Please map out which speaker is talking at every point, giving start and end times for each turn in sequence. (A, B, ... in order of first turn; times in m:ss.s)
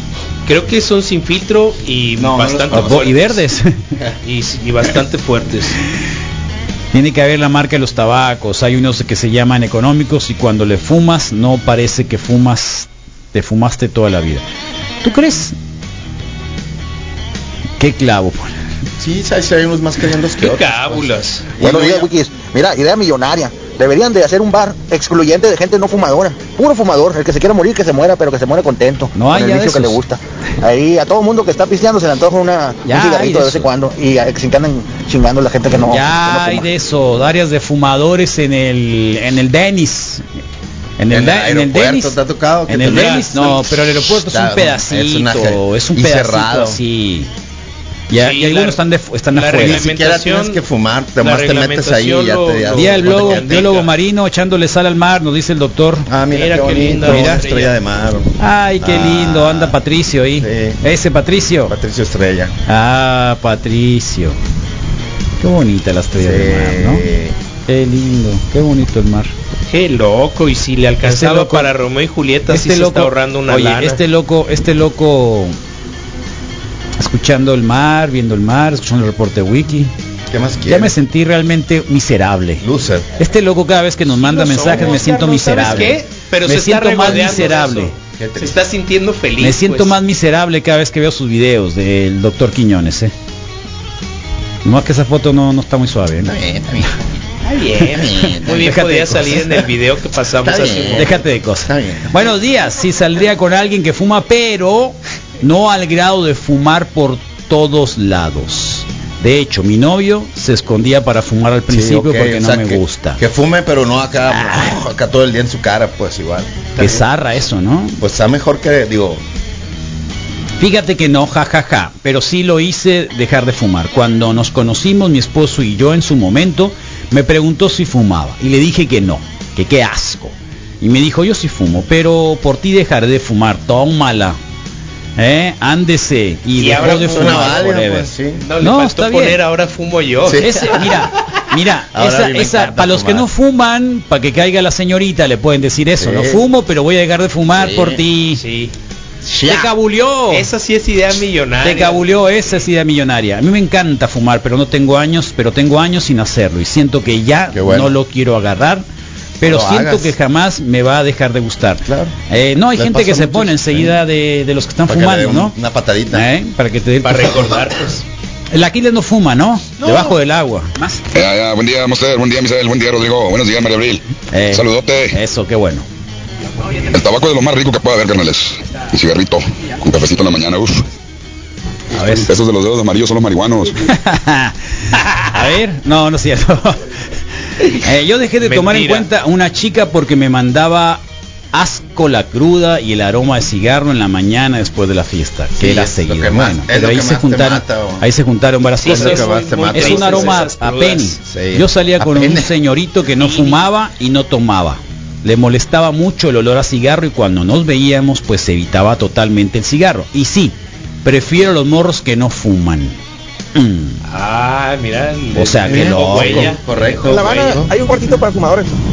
0:00.4-0:03.4 A
0:02.2-0:03.4 B
0:02.7-0:03.7 C
0:04.2-0:05.8 A
0:06.9-0:14.4 C
0:15.0-0:15.5 C
0:17.8-0:18.6 C
0:19.0-0:22.0 B
0:20.4-0:21.5 A
0:21.6-0:36.7 D
0:29.1-0:30.0 C
0:32.8-0:33.7 C
0:35.8-0:40.2 C
0:41.0-0:42.2 C
0:41.1-0:46.8 B
0:42.7-0:47.3 C
0:42.8-0:43.3 A
0:48.1-0:49.8 C
0:48.2-0:48.8 A
0:49.3-0:50.6 A
0:49.6-0:53.7 B
0:51.2-0:53.9 A
0:52.7-0:56.0 C
0:56.1-0:59.8 B
0:56.3-0:57.7 A
0:57.0-0:57.4 C
0:58.4-1:01.7 C
1:00.4-1:00.8 B
1:01.7-1:02.5 B
1:02.7-1:04.4 C
1:05.4-1:07.0 C
1:06.2-1:07.3 B
1:07.7-1:09.3 C
1:09.7-1:14.0 A
1:11.0-1:11.7 C
1:12.5-1:15.6 C
1:17.0-1:19.9 C
1:20.3-1:21.0 B
1:20.7-1:22.6 C
1:22.6-1:23.0 B
1:23.2-1:27.9 C
1:24.2-1:29.9 A
1:24.6-1:26.0 B
1:27.1-1:27.5 B
1:28.2-1:28.6 B
1:29.4-1:33.1 C
1:34.6-1:36.3 C
1:36.2-1:36.9 B
1:37.4-1:41.2 A
1:37.7-1:38.6 B
1:38.4-1:39.6 C
1:40.4-1:42.1 B
1:40.8-1:53.2 C
1:51.7-1:57.0 B
1:54.3-1:54.8 C
1:56.8-1:58.0 C
1:58.0-1:59.2 B
2:00.6-2:14.4 C
2:15.2-2:19.4 C
2:16.6-2:17.6 A
2:16.8-2:18.4 B
2:18.4-2:20.9 A
2:20.2-2:20.8 B
2:20.4-2:28.4 C
2:21.9-2:23.3 B
2:26.0-2:26.4 B
2:27.5-2:28.0 B
2:28.4-2:28.7 A
2:29.2-2:29.7 B
2:29.5-2:30.5 C
2:30.3-2:32.4 A
2:31.6-2:38.8 C
2:37.5-2:37.9 B
2:39.4-2:45.5 C
2:39.4-2:40.1 B
2:41.8-2:42.1 B
2:42.7-2:44.0 B
2:44.8-2:46.3 B
2:46.1-2:47.4 C
2:47.0-2:48.0 A
2:48.5-2:51.0 C
2:49.8-2:50.1 A
2:51.1-2:54.0 E
2:54.3-2:55.8 C
2:54.5-2:55.1 E
2:56.9-3:00.8 E
3:01.9-3:02.3 C
3:02.3-3:03.7 E
3:03.8-3:04.5 C
3:05.3-3:06.8 C
3:07.8-3:11.0 C
3:08.4-3:09.0 A
3:11.5-3:33.0 C
3:15.6-3:18.1 B
3:18.8-3:21.2 A
3:18.8-3:20.4 B
3:21.2-3:22.5 B
3:23.2-3:23.6 A
3:33.5-3:34.0 C
3:34.1-3:37.6 A
3:35.3-3:36.5 C
3:35.6-3:37.7 B
3:37.1-3:38.7 D